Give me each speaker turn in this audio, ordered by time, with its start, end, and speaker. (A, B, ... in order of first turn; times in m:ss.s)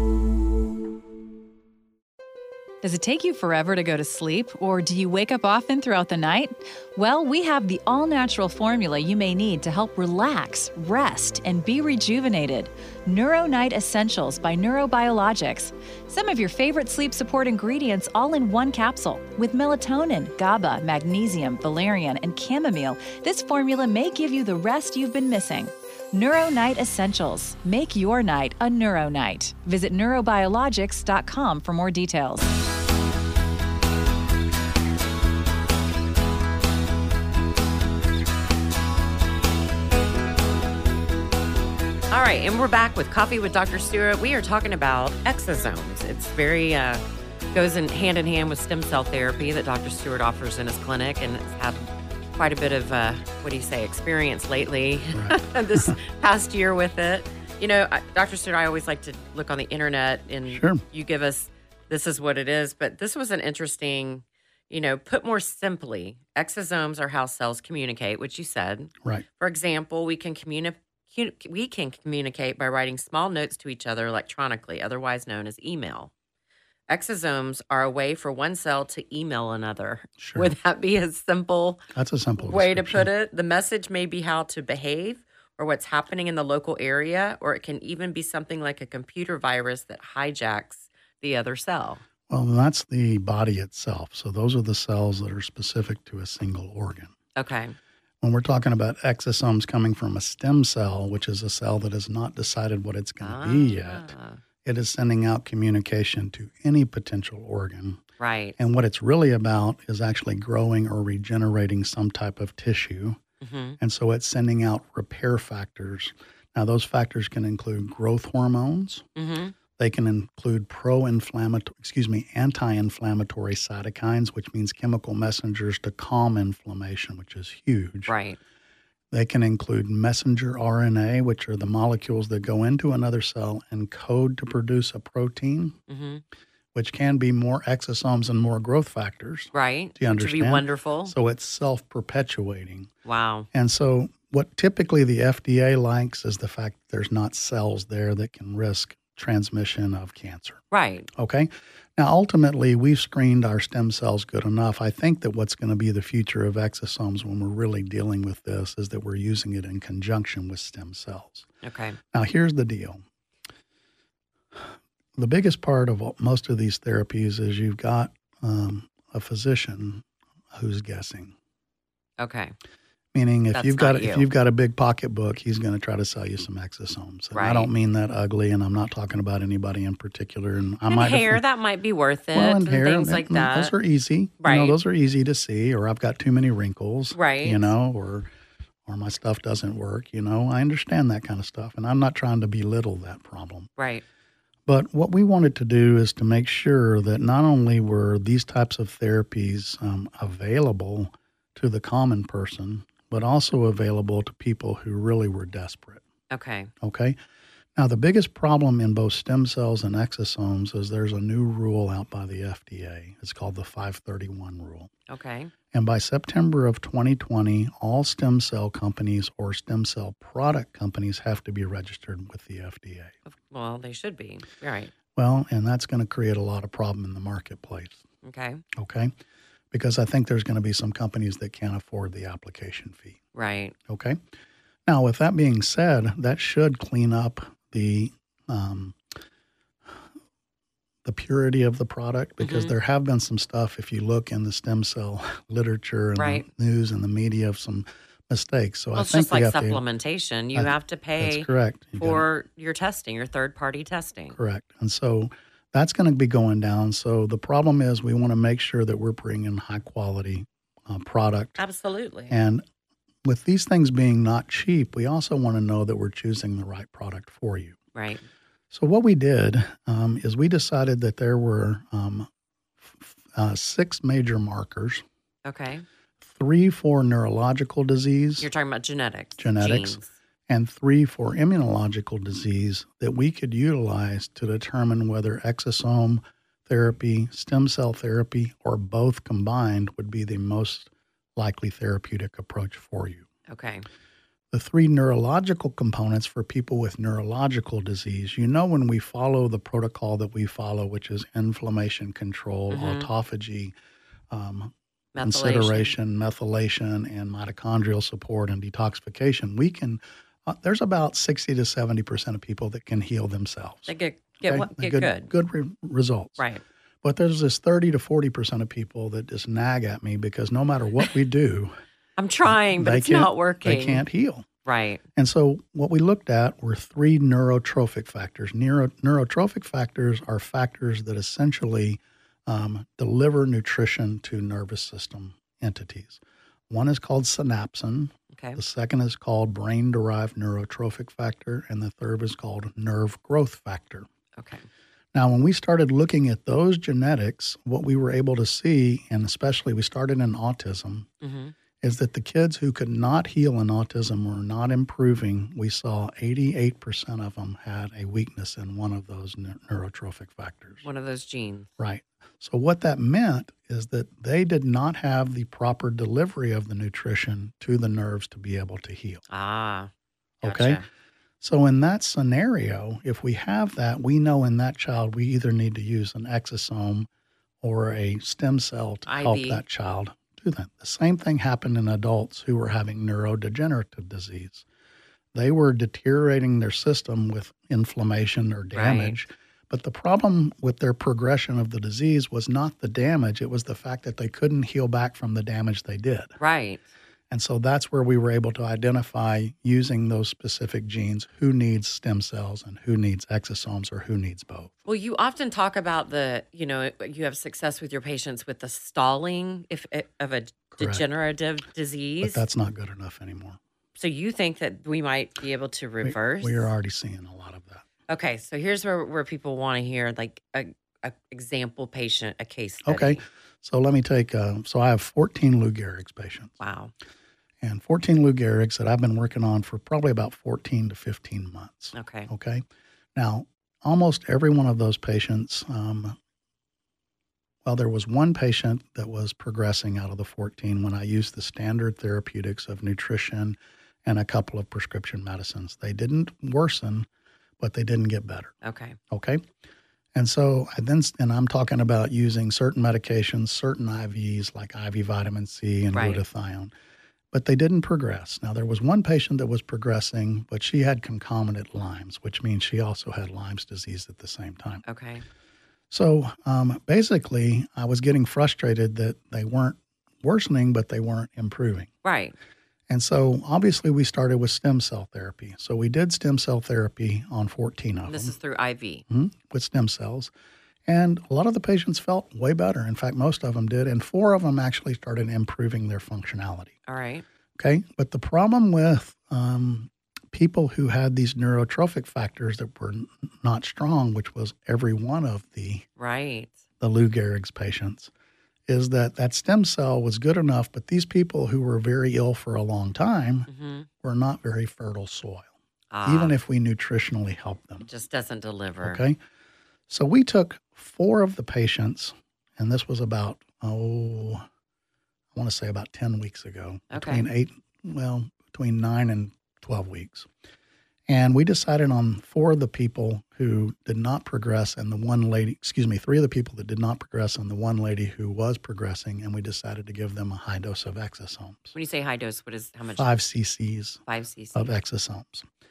0:02.8-0:32.5 A
0:42.1-1:16.1 B
0:55.1-0:56.0 C
1:00.5-1:00.8 C
1:16.9-1:21.8 B
1:20.2-1:20.5 C
1:21.9-1:23.1 C
1:22.4-1:32.0 B
1:32.3-1:37.1 C
1:37.4-1:37.8 B
1:38.2-1:48.0 C
1:43.2-1:44.4 B
1:48.2-1:48.6 B
1:48.6-1:53.2 C
1:53.4-1:53.8 B
1:53.8-1:59.1 C
1:59.2-1:59.6 B
1:59.8-2:08.1 C
2:08.1-2:08.4 B
2:09.1-2:15.8 C
2:15.9-2:16.2 B
2:16.7-2:22.9 C
2:19.5-2:21.1 B
2:23.0-2:23.5 B
2:23.5-2:30.6 C
2:30.7-2:31.1 B
2:31.2-2:41.5 C
2:41.6-2:42.0 B
2:42.1-2:43.0 C
2:45.2-2:51.4 C
2:52.2-2:52.5 B
2:53.1-3:01.4 C
2:53.5-2:54.3 B
2:57.3-2:57.7 B
3:00.9-3:03.7 B
3:02.3-3:08.3 C
3:04.4-3:04.8 B
3:07.1-3:07.7 B
3:08.9-3:13.7 C
3:13.8-3:14.0 B
3:14.7-3:26.0 C
3:26.3-3:26.7 B
3:26.8-3:27.2 C
3:27.8-3:34.9 C
3:35.1-3:35.5 B
3:35.7-3:43.2 C
3:43.3-3:44.9 B
3:45.2-3:48.0 C
3:48.2-3:48.6 B
3:48.8-3:49.1 C
3:49.7-3:53.2 C
3:53.3-3:53.8 B
3:53.9-3:54.2 C
3:54.9-3:59.0 C
4:01.0-4:09.8 C
4:02.4-4:02.7 B
4:06.2-4:06.4 B
4:09.0-4:14.4 B
4:10.6-4:12.2 C
4:14.3-4:21.6 C
4:21.6-4:22.4 B
4:22.3-4:22.6 C
4:23.2-4:27.8 C
4:28.0-4:28.2 B
4:28.7-4:32.3 C
4:32.8-4:35.0 C
4:35.4-4:35.8 B
4:36.2-4:38.5 C
4:38.4-4:40.1 B
4:39.4-4:53.3 C
4:53.5-4:53.9 B
4:54.5-5:03.7 C
5:02.7-5:03.1 B
5:04.3-5:16.4 C
5:05.2-5:05.9 B
5:13.9-5:15.3 B
5:16.4-5:16.6 B
5:17.0-5:21.7 C
5:22.2-5:24.0 B
5:22.5-5:24.5 C
5:24.6-5:25.0 B
5:25.2-5:44.1 C
5:38.3-5:38.6 B
5:44.4-5:44.6 B
5:45.1-5:51.1 C
5:51.2-5:51.5 B
5:51.8-6:00.9 C
6:00.8-6:01.7 B
6:01.8-6:09.2 C
6:09.3-6:09.9 B
6:10.4-6:10.8 C
6:10.4-6:10.8 B
6:11.4-6:17.1 C
6:17.6-6:24.6 C
6:19.1-6:19.6 B
6:25.3-6:36.3 C
6:28.7-6:29.2 B
6:36.4-6:36.8 B
6:37.3-6:44.7 C
6:44.9-6:52.4 B
6:50.7-6:51.0 C
6:52.2-6:53.6 C
6:54.0-6:56.7 B
6:56.0-6:57.8 C
6:58.1-7:03.2 B
7:02.8-7:06.5 C
7:06.6-7:06.9 B
7:07.6-7:12.6 C
7:11.9-7:12.3 B
7:13.2-7:16.2 C
7:17.6-7:27.1 C
7:27.6-7:28.6 C
7:28.6-7:29.0 B
7:29.1-7:29.4 C
7:30.2-7:36.7 C
7:35.9-7:36.2 B
7:37.3-7:44.8 C
7:44.9-7:45.2 B
7:45.9-7:51.9 C
7:52.0-7:52.4 B
7:52.9-7:58.3 C
7:58.1-7:59.0 B
7:59.1-8:00.3 C
8:00.9-8:06.8 C
8:06.9-8:07.2 B
8:07.6-8:15.9 C
8:16.0-8:16.6 B
8:16.8-8:18.1 C
8:18.7-8:23.5 C
8:23.5-8:23.9 B
8:24.0-8:25.5 C
8:25.9-8:26.4 B
8:26.0-8:27.9 C
8:27.9-8:29.0 B
8:28.8-8:29.2 C
8:29.9-8:34.4 C
8:35.3-8:40.3 C
8:36.9-8:37.3 B
8:41.1-8:51.7 C
8:51.7-8:53.1 B
8:53.0-8:54.0 C
8:54.1-8:54.7 B
8:54.6-8:55.5 C